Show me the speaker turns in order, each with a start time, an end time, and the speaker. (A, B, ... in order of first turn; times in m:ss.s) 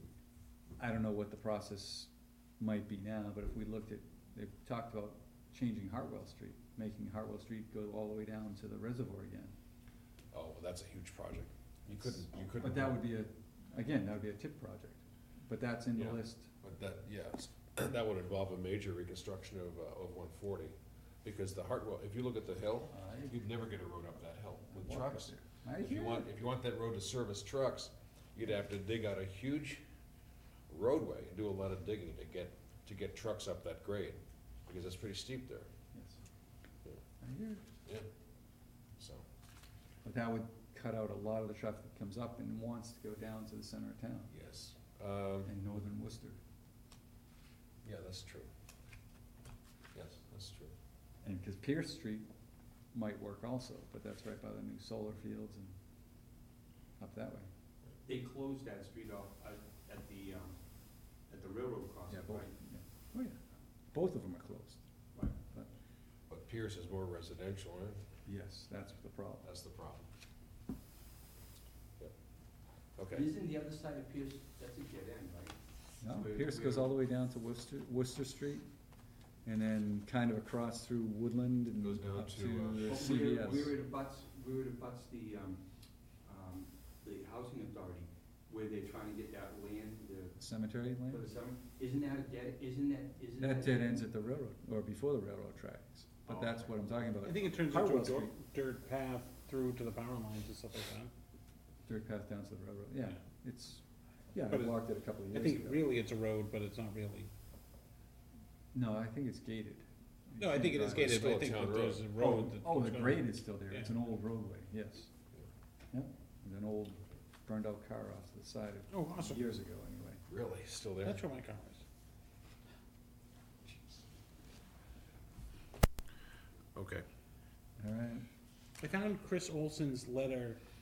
0:00.8-0:09.6 A
0:10.3-0:13.0 B
0:12.6-0:16.5 A
0:16.0-0:29.8 B
0:22.9-0:23.3 A
0:24.7-0:26.3 A
0:30.7-0:35.7 B
0:35.9-0:36.2 A
0:37.2-0:37.6 A
0:39.0-0:39.2 B
0:40.0-0:44.3 A
0:44.3-0:45.5 B
0:45.4-0:46.4 A
0:47.8-0:48.5 B
0:49.9-0:50.7 B
0:51.2-0:52.3 A
0:52.9-0:55.8 A
0:57.0-0:57.5 A
0:58.0-1:00.6 C
1:01.2-1:02.6 C
1:02.1-1:04.8 A
1:05.4-1:05.7 A
1:06.3-1:08.0 B
1:08.2-1:09.4 A
1:09.4-1:10.1 B
1:13.0-1:13.3 B
1:13.1-1:16.9 C
1:16.0-1:18.7 A
1:19.4-1:23.7 A
1:21.8-1:23.0 B
1:22.8-1:25.6 C
1:26.2-1:30.4 C
1:30.4-1:31.2 A
1:31.1-1:34.0 C
1:33.4-1:38.4 A
1:37.2-1:41.1 D
1:41.8-1:45.8 A
1:44.5-1:47.3 D
1:48.7-1:51.2 A
1:50.4-1:53.9 D
1:50.7-1:52.1 B
1:52.2-1:55.1 A
1:55.9-2:00.2 A
1:58.9-1:59.4 D
2:00.3-2:01.2 B
2:01.0-2:01.8 D
2:06.7-2:07.0 B
2:07.8-2:08.2 A
2:08.8-2:10.6 D